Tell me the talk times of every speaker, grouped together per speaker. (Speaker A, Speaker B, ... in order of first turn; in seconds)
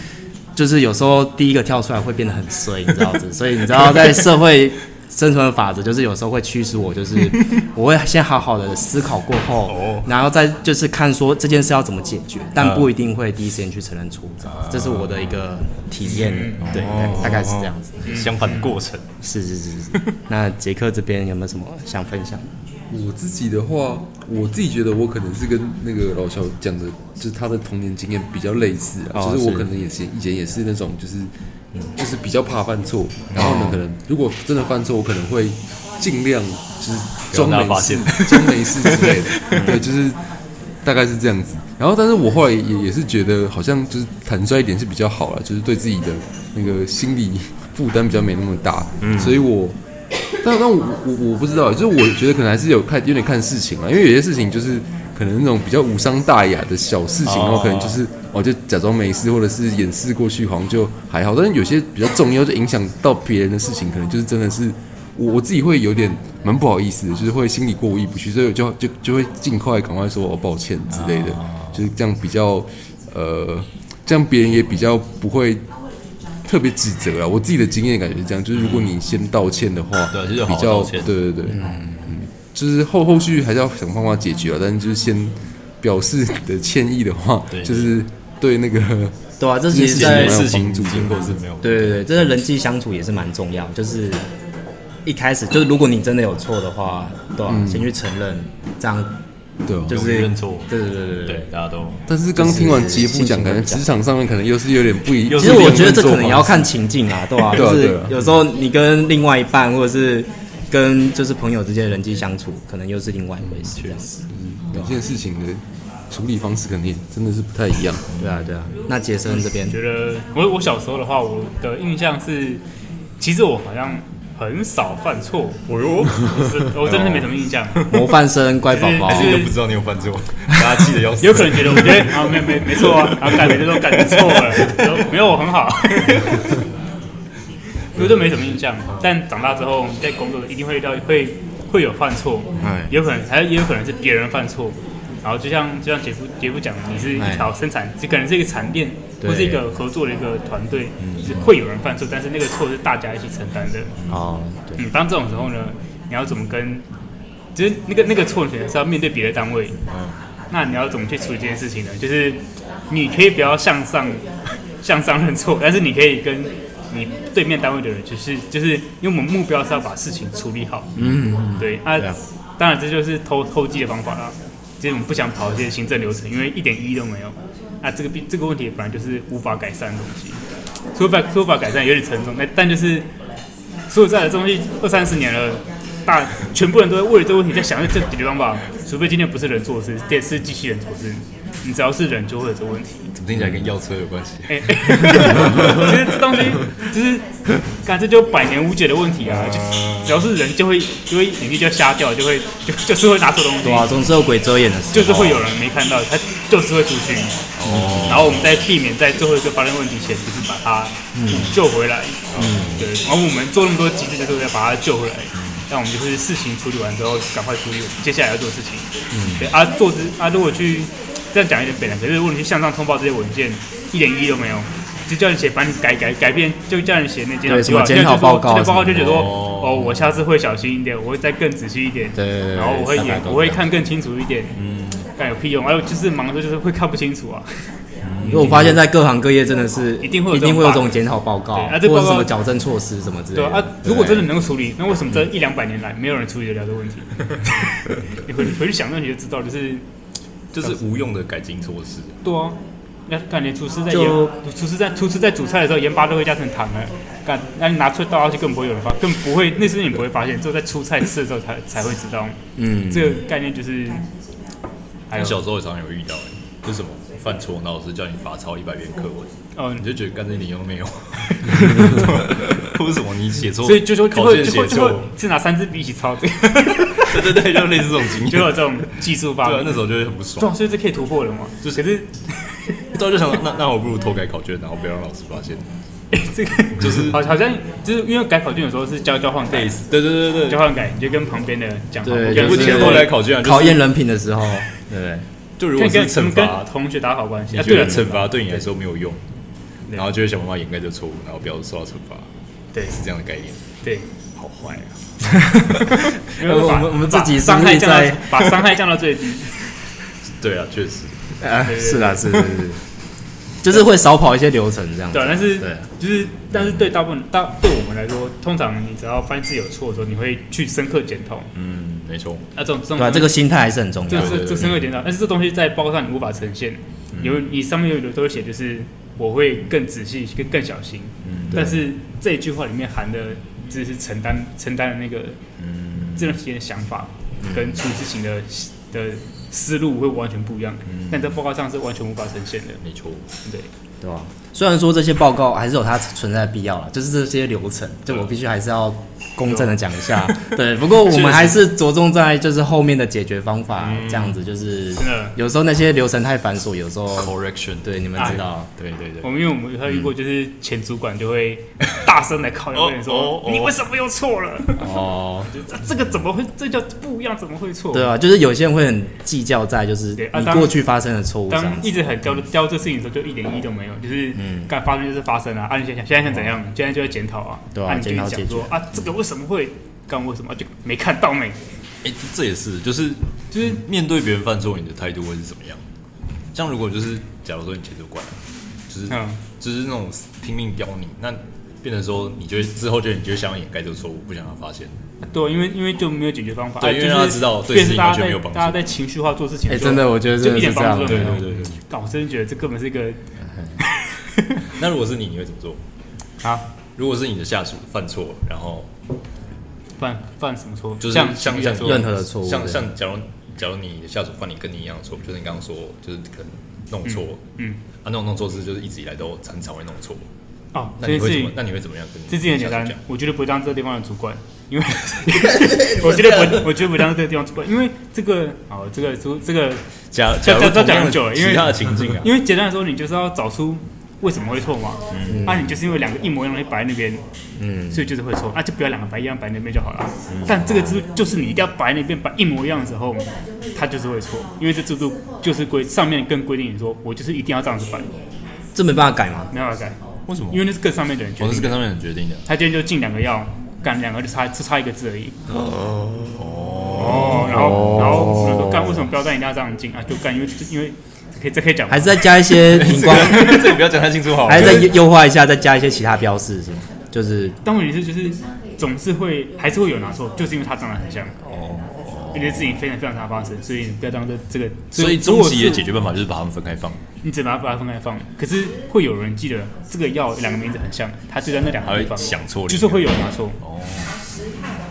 Speaker A: 0.6-18.0, 19.2-22.5, 29.1-29.7, 33.4-33.8, 39.4-39.8, 49.0-49.4, 81.5-82.2, 89.4-90.5, 91.6-94.3, 95.0-99.2, 99.9-101.5, 102.3-103.9, 105.3-114.0, 118.2-119.8, 127.9-129.5, 142.6-142.9, 147.2-147.5, 149.2-149.7, 154.1-154.8, 171.0-172.2, 203.6-205.5, 207.6-208.4, 211.2-211.6, 212.4-212.9, 219.1-219.5, 227.5-230.2, 232.2-233.7, 238.3-244.3, 253.9-254.3, 262.6-263.2, 292.0-295.3, 305.3-305.9, 306.4-308.6, 311.4-312.8, 313.6-315.9, 316.5-316.8, 323.0-324.5, 331.5-331.9, 337.4-337.8, 344.0-357.3, 357.8-358.7, 364.8-365.5, 367.9-371.9, 374.4-374.7, 377.7-378.8, 399.7-401.4, 411.8-412.9, 435.3-435.7, 437.6-438.1, 448.8-449.5, 457.0-459.1, 461.9-463.9, 464.4-467.6, 471.4-471.9
Speaker B: 9.7-10.1, 12.6-12.9, 14.4-15.4, 16.6-19.1, 33.3-33.8, 37.3-39.6, 57.2-58.0, 70.9-71.8, 78.5-78.9, 80.1-81.1, 87.5-87.9, 89.9-92.3, 99.9-100.7, 101.2-102.0, 105.2-106.3, 113.7-114.2, 118.1-118.5, 125.7-127.3, 129.0-135.0, 151.0-151.4, 159.9-160.2, 193.2-194.9, 199.3-200.3, 207.6-208.6, 212.3-212.8, 215.4-215.6, 228.9-229.8, 234.6-235.1, 238.0-238.7, 250.5-252.2, 265.1-275.1, 277.0-280.5, 282.9-285.7, 286.8-287.2, 289.5-290.6, 292.3-293.8, 295.6-296.7, 297.5-299.2, 299.9-302.3, 302.9-303.6, 304.4-304.9, 310.4-311.4, 312.4-312.7, 321.6-322.5, 324.1-324.9, 327.1-327.4, 331.2-331.7, 335.6-336.4, 340.9-341.4, 342.8-343.3, 353.8-354.4, 357.1-359.3, 362.7-363.8, 382.0-385.8, 386.5-395.0, 396.8-398.8, 401.0-401.8, 404.8-405.8, 407.0-408.9, 411.0-417.4, 418.0-420.2, 421.0-423.0, 425.6-426.8, 430.1-432.3, 435.1-435.6, 440.3-440.8, 450.3-450.7, 451.4-452.4, 456.3-458.3, 462.6-465.0, 472.0-472.8, 474.9-477.0, 481.9-484.2
Speaker C: 16.0-16.9, 18.1-18.8, 119.3-122.6, 123.2-125.6, 126.2-128.0, 128.7-129.6, 131.2-136.6, 137.9-153.9, 154.8-156.8, 157.6-159.8, 160.5-164.3, 164.8-170.9, 171.6-180.4, 180.9-183.1, 183.9-193.1, 194.5-197.2, 197.8-204.0, 204.9-207.4, 208.0-234.6, 235.2-237.6, 238.2-238.8, 240.0-241.0, 241.5-242.3, 243.3-249.8, 252.2-264.1, 265.1-265.4, 269.6-269.9, 273.6-282.9, 286.1-289.8, 290.4-293.1, 295.7-298.3, 303.8-304.1, 305.8-309.6, 311.7-312.2, 315.1-321.5, 322.5-323.4, 324.1-335.4, 336.2-342.8, 349.4-349.8, 351.1-351.6, 355.0-355.4, 358.2-358.4, 359.2-368.1, 370.2-370.8, 371.5-381.6, 383.5-383.8, 389.1-389.4, 395.2-403.2, 403.8-404.7, 410.0-412.1, 417.1-417.8, 420.7-421.6, 422.3-429.9, 430.4-437.2, 437.9-448.2, 449.5-451.8, 452.5-455.4, 456.9-462.4, 467.6-471.4, 472.3-475.8, 477.2-483.6
Speaker D: 22.9-31.3, 32.0-40.2, 40.9-49.8, 50.4-75.6, 76.5-91.4, 97.5-97.9, 99.7-100.0, 102.1-106.7, 107.5-108.1, 114.3-118.1